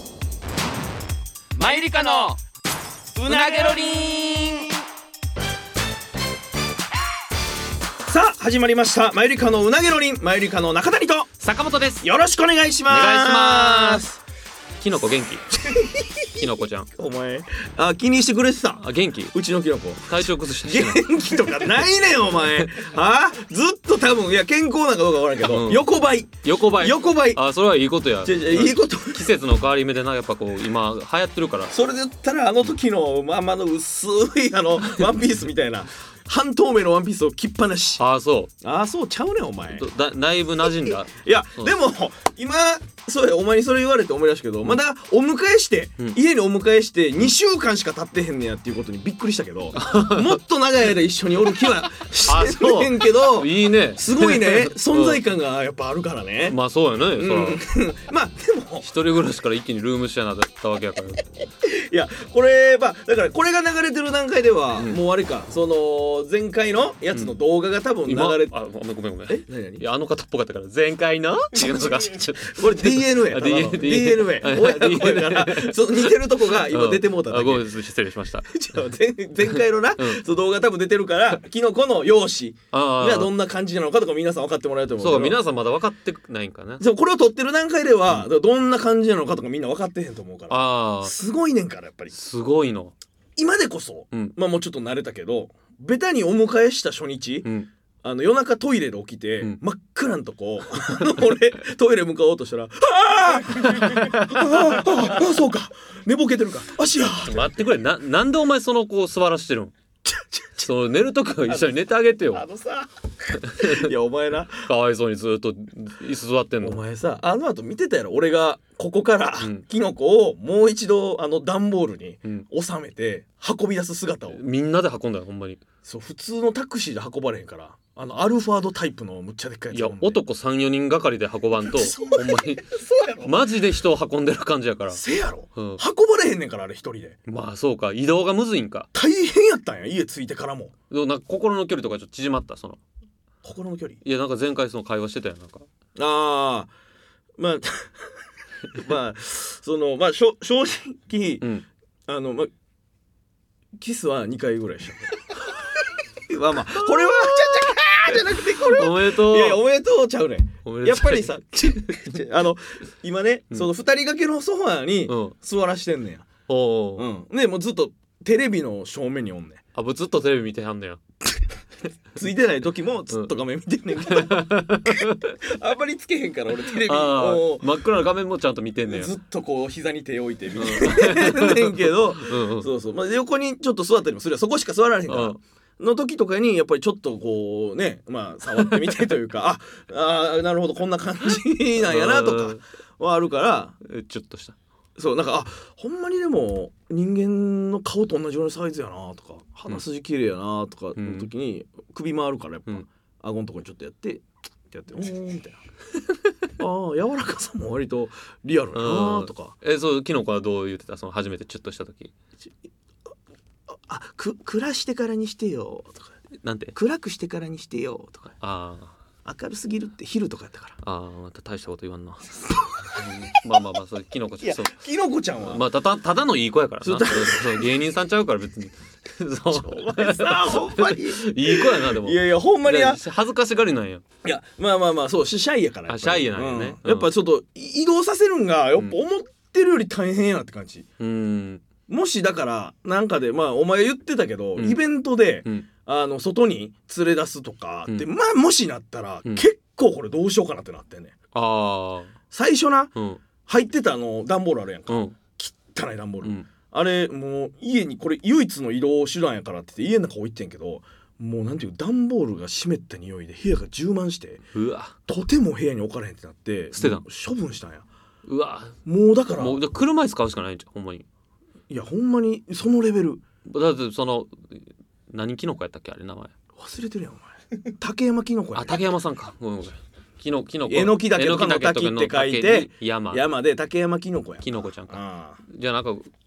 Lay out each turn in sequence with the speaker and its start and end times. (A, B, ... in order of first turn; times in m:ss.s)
0:01.6-0:01.9 A
0:01.6-0:02.4 B
0:03.2-0:04.0 A
0:03.3-0:04.6 B
0:08.0-0:11.4 A
0:11.4-0:12.0 B
0:12.0-0:14.2 A
0:12.9-0:14.0 B
0:14.8-0:15.5 B
0:15.6-0:27.4 A
0:16.3-0:16.9 B
0:18.8-0:19.3 B
0:20.1-0:21.4 B
0:25.4-0:25.9 B
0:26.4-0:31.7 B
0:28.2-0:29.3 A
0:31.7-0:38.0 A
0:38.0-0:38.5 B
0:38.6-0:39.8 A
0:39.7-0:41.7 B
0:40.7-0:56.6 A
0:49.7-0:50.4 B
0:52.2-0:55.2 B
0:56.4-0:57.6 B
0:57.2-0:58.9 A
0:58.8-1:01.2 B
1:01.6-1:08.5 A
1:08.0-1:18.5 B
1:09.3-1:09.8 A
1:11.6-1:17.7 A
1:18.4-1:25.4 A
1:19.4-1:20.2 B
1:22.7-1:23.3 B
1:25.0-1:26.8 B
1:26.8-1:32.1 A
1:30.5-1:31.1 B
1:32.1-1:32.9 B
1:33.4-1:37.5 A
1:37.4-1:37.7 B
1:38.0-1:47.5 A
1:43.5-1:45.2 B
1:47.2-1:49.7 B
1:50.0-1:50.7 A
1:50.6-1:52.4 B
1:51.4-1:51.8 A
1:52.3-1:54.7 A
1:53.3-1:53.9 B
1:54.6-1:56.8 B
1:56.6-2:04.4 A
2:04.3-2:05.6 B
2:05.8-2:10.2 A
2:09.7-2:15.0 B
2:11.6-2:13.4 A
2:14.9-2:17.2 A
2:15.6-2:15.8 B
2:17.2-2:18.9 B
2:18.9-2:20.7 A
2:20.9-2:22.8 B
2:23.4-2:24.0 A
2:24.0-2:25.6 B
2:26.0-2:26.7 A
2:27.4-2:28.1 A
2:28.7-2:31.4 A
2:32.1-2:32.5 A
2:33.8-2:46.3 A
2:36.8-2:37.1 B
2:38.3-2:39.6 B
2:40.6-2:42.2 B
2:45.1-2:45.3 B
2:46.5-2:47.1 B
2:47.0-2:49.6 A
2:49.7-2:51.0 B
2:52.1-2:57.7 A
2:54.0-2:55.4 B
2:56.6-2:59.1 B
2:58.9-3:13.8 A
3:00.6-3:02.7 B
3:05.1-3:05.4 B
3:11.8-3:12.6 B
3:13.8-3:14.6 B
3:15.0-3:25.6 A
3:21.0-3:21.3 B
3:26.6-3:29.5 A
3:28.7-3:32.1 B
3:33.7-3:36.1 A
3:36.4-3:36.7 B
3:36.7-3:38.3 A
3:38.4-3:39.0 B
3:39.2-3:40.8 A
3:40.8-3:44.7 B
3:42.7-3:43.1 A
3:44.4-3:45.6 A
3:45.4-3:54.0 B
3:46.8-3:47.7 A
3:49.5-3:53.0 A
3:54.2-4:00.8 A
3:55.9-3:57.1 B
4:01.0-4:01.6 B
4:01.9-4:11.1 A
4:11.3-4:12.1 B
4:12.3-4:12.9 A
4:12.9-4:13.2 B
4:13.4-4:24.4 A
4:14.9-4:15.2 B
4:24.5-4:25.0 B
4:25.1-4:27.8 A
4:26.8-4:27.0 B
4:28.2-4:28.8 B
4:28.8-4:29.6 A
4:29.4-4:31.0 B
4:31.7-4:33.2 A
4:33.4-4:36.3 B
4:36.6-4:38.8 A
4:38.5-4:43.2 B
4:40.7-4:45.4 A
4:44.4-4:46.1 B